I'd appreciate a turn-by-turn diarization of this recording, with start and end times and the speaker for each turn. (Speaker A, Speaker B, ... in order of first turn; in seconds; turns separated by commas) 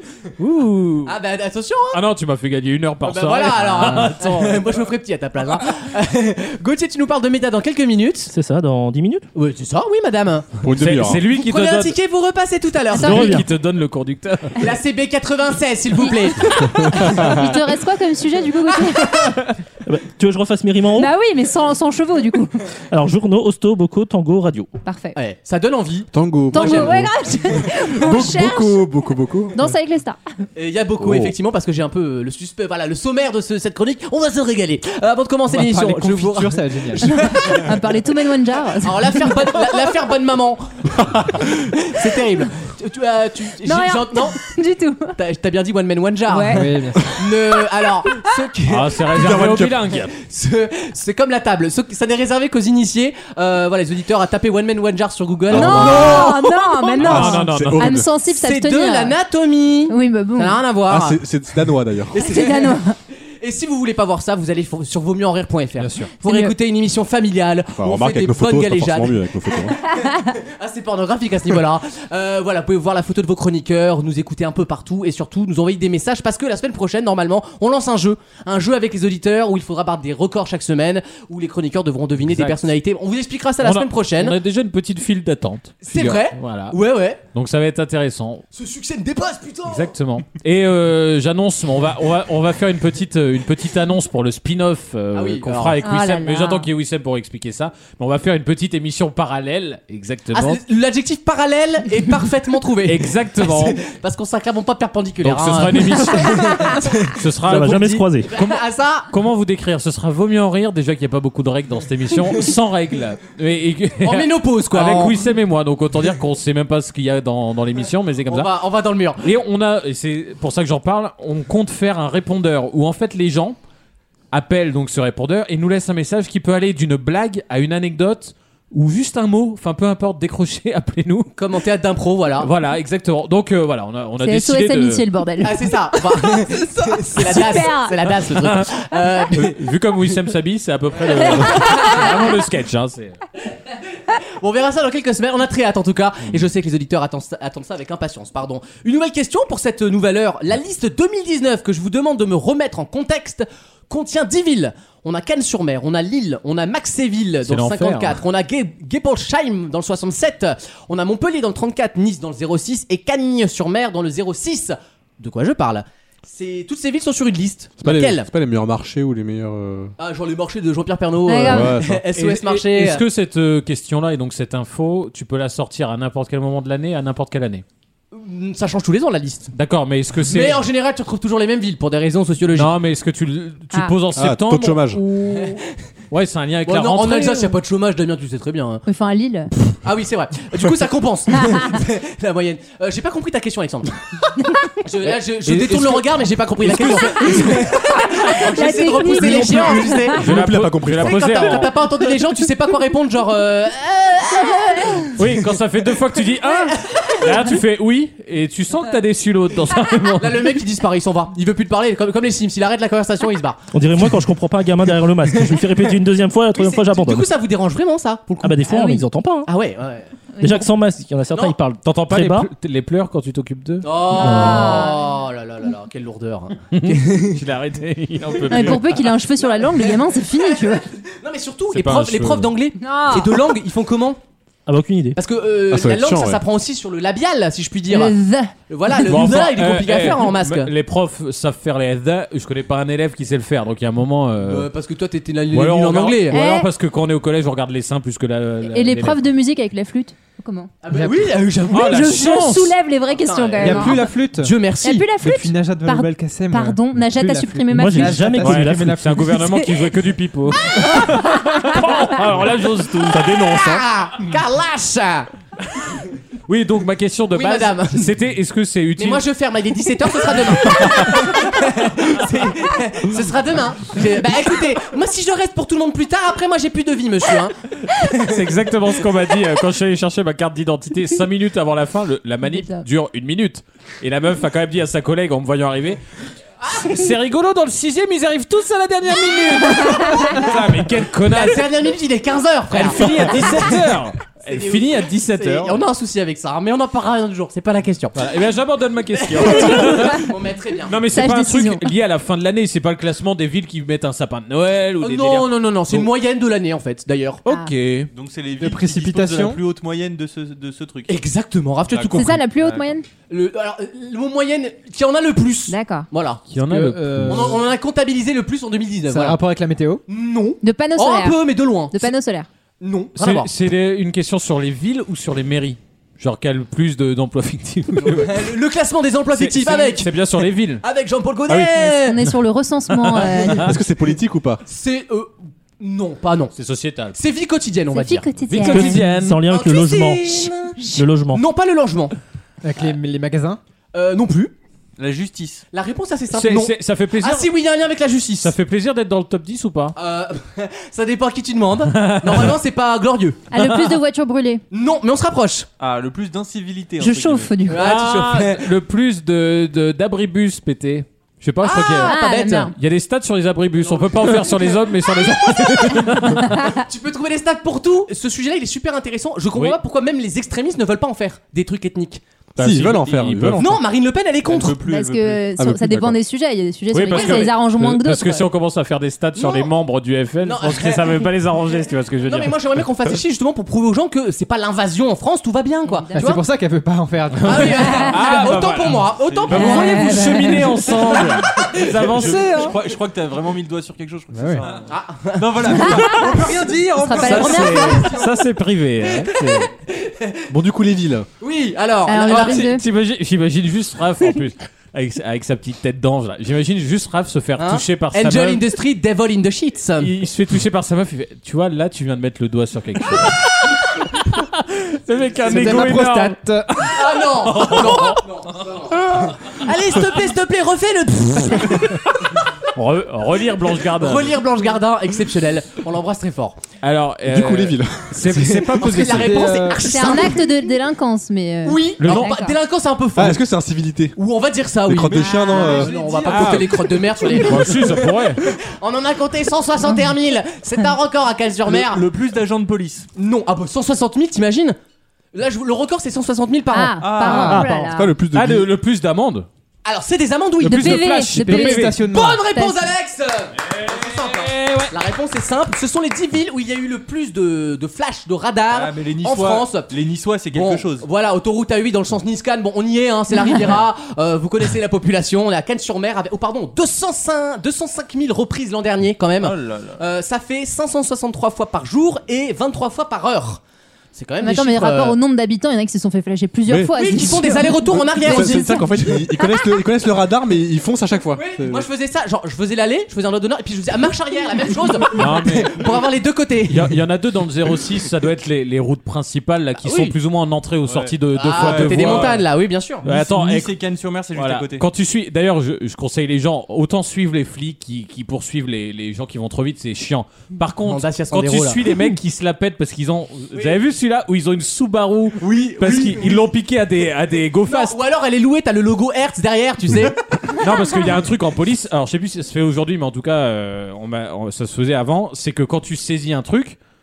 Speaker A: 0.4-1.1, Speaker B: 1.1-2.0, Speaker A: 1.9-4.8, Speaker B: 3.0-8.3, Speaker C: 8.3-9.3, Speaker B: 9.3-10.5, Speaker D: 10.6-11.2, Speaker A: 10.7-11.9, Speaker B: 11.2-13.4, Speaker E: 12.9-13.3, Speaker C: 13.0-13.4, Speaker A: 13.0-14.7, Speaker B: 14.6-17.6, Speaker E: 16.0-16.5, Speaker E: 17.1-19.3, Speaker C: 19.9-21.1, Speaker E: 20.9-22.5, Speaker C: 22.9-24.7, Speaker E: 24.8-25.2, Speaker B: 25.1-27.0, Speaker D: 26.1-29.6, Speaker E: 26.5-28.9, Speaker E: 29.5-30.2, Speaker B: 30.6-37.6, Speaker D: 31.0-31.3, Speaker F: 35.5-37.2, Speaker E: 37.0-39.2, Speaker B: 38.8-40.6, Speaker B: 41.4-44.4, Speaker E: 43.6-45.1, Speaker B: 45.1-57.3, Speaker E: 46.3-46.7, Speaker F: 46.5-47.0, Speaker A: 48.7-50.1, Speaker D: 49.1-50.1, Speaker D: 55.5-56.4, Speaker E: 55.5-59.1, Speaker A: 57.0-58.0, Speaker D: 57.0-58.1, Speaker B: 58.3-61.2, Speaker E: 59.9-60.6, Speaker D: 60.9-62.1, Speaker B: 62.1-62.8, Speaker E: 62.2-62.9, Speaker B: 63.4-84.3, Speaker F: 65.8-66.1, Speaker E: 66.2-66.5, Speaker D: 67.7-69.8, Speaker A: 82.2-82.7, Speaker A: 83.6-86.8, Speaker B: 85.8-87.2, Speaker A: 87.3-88.4, Speaker B: 88.5-89.9, Speaker A: 89.7-100.6, Speaker B: 95.1-95.8, Speaker E: 95.8-96.7, Speaker B: 100.3-107.2, Speaker A: 102.8-103.8, Speaker A: 105.2-118.5, Speaker C: 107.4-108.3, Speaker B: 108.3-109.1, Speaker B: 114.0-115.2, Speaker B: 118.2-119.3, Speaker A: 119.2-123.6, Speaker A: 124.3-131.3, Speaker B: 131.3-132.5, Speaker A: 132.4-135.0, Speaker E: 134.2-135.7, Speaker B: 135.4-139.6, Speaker E: 137.2-138.0, Speaker A: 138.3-138.7, Speaker A: 139.3-143.2, Speaker E: 141.4-142.1, Speaker B: 144.4-168.3, Speaker A: 157.4-158.2, Speaker D: 167.8-169.9, Speaker B: 170.0-173.0, Speaker E: 171.3-171.7, Speaker D: 171.5-172.0, Speaker A: 172.1-177.6, Speaker B: 178.1-179.5, Speaker A: 179.5-180.6, Speaker B: 180.2-182.7, Speaker A: 182.5-184.9, Speaker D: 184.2-185.0, Speaker E: 184.9-185.6, Speaker A: 186.1-187.6, Speaker B: 186.7-188.8, Speaker E: 188.8-189.5, Speaker B: 189.8-194.0, Speaker B: 194.8-200.3, Speaker D: 195.5-195.8, Speaker A: 196.6-197.6, Speaker E: 197.9-200.2, Speaker D: 199.3-201.6, Speaker A: 200.1-201.8, Speaker B: 201.0-205.2, Speaker A: 205.2-210.6, Speaker B: 206.7-207.3, Speaker B: 210.2-213.7, Speaker C: 213.7-217.3, Speaker B: 216.5-220.5, Speaker C: 218.4-219.5, Speaker C: 220.4-222.5, Speaker A: 221.8-224.3, Speaker B: 223.8-227.4, Speaker E: 224.1-225.0, Speaker C: 224.2-224.8, Speaker A: 226.7-229.0, Speaker E: 228.5-230.8, Speaker B: 229.8-234.2, Speaker A: 231.7-232.5, Speaker E: 232.8-233.3, Speaker C: 234.7-235.2, Speaker B: 235.2-238.2, Speaker D: 235.7-236.4, Speaker E: 237.9-238.5, Speaker B: 238.7-240.7, Speaker A: 239.0-244.7, Speaker B: 244.4-246.4, Speaker A: 245.5-249.2, Speaker E: 246.3-246.7, Speaker E: 248.7-250.7, Speaker B: 250.8-255.1, Speaker F: 250.9-251.4, Speaker A: 251.7-252.7, Speaker E: 251.7-254.0, Speaker F: 253.6-254.6, Speaker E: 254.8-258.4, Speaker F: 255.2-259.6, Speaker C: 257.7-259.0, Speaker A: 258.4-263.8, Speaker E: 260.6-262.0, Speaker B: 263.6-265.3, Speaker A: 266.5-269.2, Speaker B: 267.3-268.1, Speaker B: 269.0-278.4, Speaker A: 270.6-270.9, Speaker A: 278.2-286.0, Speaker E: 282.4-282.8, Speaker B: 286.6-286.9, Speaker A: 286.7-291.7, Speaker B: 291.2-293.8, Speaker A: 292.7-295.8, Speaker B: 294.4-298.2, Speaker A: 298.1-300.3, Speaker B: 299.2-300.9, Speaker A: 300.9-305.5, Speaker E: 301.1-301.8, Speaker B: 305.0-307.4, Speaker A: 307.4-308.1, Speaker E: 307.4-307.7, Speaker G: 308.1-311.1, Speaker F: 308.6-309.6, Speaker B: 311.1-312.4, Speaker G: 311.9-312.9, Speaker E: 312.1-313.1, Speaker B: 313.3-316.4, Speaker E: 315.7-316.1, Speaker A: 316.5-317.6, Speaker F: 316.6-317.7, Speaker B: 317.3-319.4, Speaker F: 319.1-320.0, Speaker B: 320.1-322.1, Speaker E: 320.6-322.5, Speaker B: 322.8-323.5, Speaker A: 323.2-328.6, Speaker B: 328.0-330.1, Speaker A: 329.3-330.8, Speaker B: 330.8-332.2, Speaker D: 331.5-331.8, Speaker E: 331.8-333.7, Speaker D: 333.5-334.6, Speaker B: 334.6-336.5, Speaker A: 336.6-337.2, Speaker B: 337.1-342.1, Speaker E: 337.9-339.0, Speaker A: 338.5-339.4, Speaker C: 338.6-341.4, Speaker F: 342.6-343.6, Speaker B: 343.9-344.5, Speaker G: 345.0-345.6, Speaker B: 345.7-348.5, Speaker A: 346.3-347.5, Speaker A: 348.4-349.9, Speaker B: 349.9-353.4, Speaker A: 351.9-352.6, Speaker E: 353.5-354.6, Speaker A: 353.6-353.9, Speaker B: 354.7-355.7, Speaker G: 355.8-357.6, Speaker E: 357.0-357.9, Speaker B: 357.6-358.7, Speaker A: 357.7-362.1, Speaker B: 361.6-362.7, Speaker E: 362.0-362.7, Speaker A: 362.7-366.6, Speaker B: 363.8-372.2, Speaker E: 366.4-366.7, Speaker A: 369.5-369.8, Speaker D: 372.6-373.8, Speaker A: 372.6-373.8, Speaker B: 373.6-374.8, Speaker G: 374.4-375.4, Speaker E: 374.9-378.4, Speaker D: 375.5-376.2, Speaker A: 376.9-382.6, Speaker B: 377.1-377.5, Speaker B: 379.4-379.7, Speaker B: 380.4-381.3, Speaker B: 382.2-386.4, Speaker E: 385.8-386.3, Speaker F: 386.2-388.1, Speaker A: 387.3-392.8, Speaker B: 387.4-392.4, Speaker G: 389.2-389.5, Speaker E: 389.5-390.6, Speaker G: 392.1-397.9, Speaker F: 394.3-394.6, Speaker B: 394.9-398.3, Speaker E: 395.7-398.1, Speaker A: 397.2-399.7, Speaker B: 399.0-400.4, Speaker D: 400.5-401.3, Speaker B: 401.4-402.8, Speaker E: 402.1-402.8, Speaker A: 402.5-408.6, Speaker B: 407.6-410.1, Speaker A: 410.0-418.8, Speaker F: 415.4-416.8, Speaker B: 416.9-422.0, Speaker A: 422.7-424.4, Speaker B: 423.9-426.6, Speaker A: 426.8-429.6, Speaker D: 427.2-428.3, Speaker B: 428.4-430.5, Speaker F: 428.9-430.3, Speaker E: 429.8-432.6, Speaker B: 431.6-433.4, Speaker A: 432.0-432.4, Speaker D: 433.1-434.1, Speaker B: 434.1-442.1, Speaker D: 434.8-435.9, Speaker G: 435.1-437.2, Speaker E: 435.3-435.8, Speaker A: 436.2-438.4, Speaker G: 441.7-443.1, Speaker B: 443.1-444.8, Speaker B: 445.3-447.1, Speaker E: 446.7-448.1, Speaker G: 447.0-447.6, Speaker F: 447.2-447.9, Speaker D: 447.9-448.7, Speaker A: 448.3-449.5, Speaker B: 449.8-460.0, Speaker E: 450.6-452.9, Speaker A: 450.7-451.9, Speaker F: 451.3-452.5, Speaker A: 453.6-454.9, Speaker G: 458.7-461.1, Speaker B: 460.5-473.6, Speaker G: 469.4-470.0, Speaker B: 474.1-475.1, Speaker E: 474.4-478.9, Speaker D: 476.7-481.9, Speaker B: 476.9-479.3, Speaker B: 481.3-487.0, Speaker A: 485.1-485.8, Speaker A: 486.7-492.4, Speaker B: 489.8-490.1, Speaker G: 490.9-492.4, Speaker B: 491.3-493.0, Speaker A: 493.0-493.7, Speaker G: 493.1-494.8, Speaker A: 494.3-508.0, Speaker B: 500.8-501.9, Speaker G: 505.4-506.4, Speaker B: 505.8-506.3, Speaker B: 507.7-510.2, Speaker A: 510.6-516.8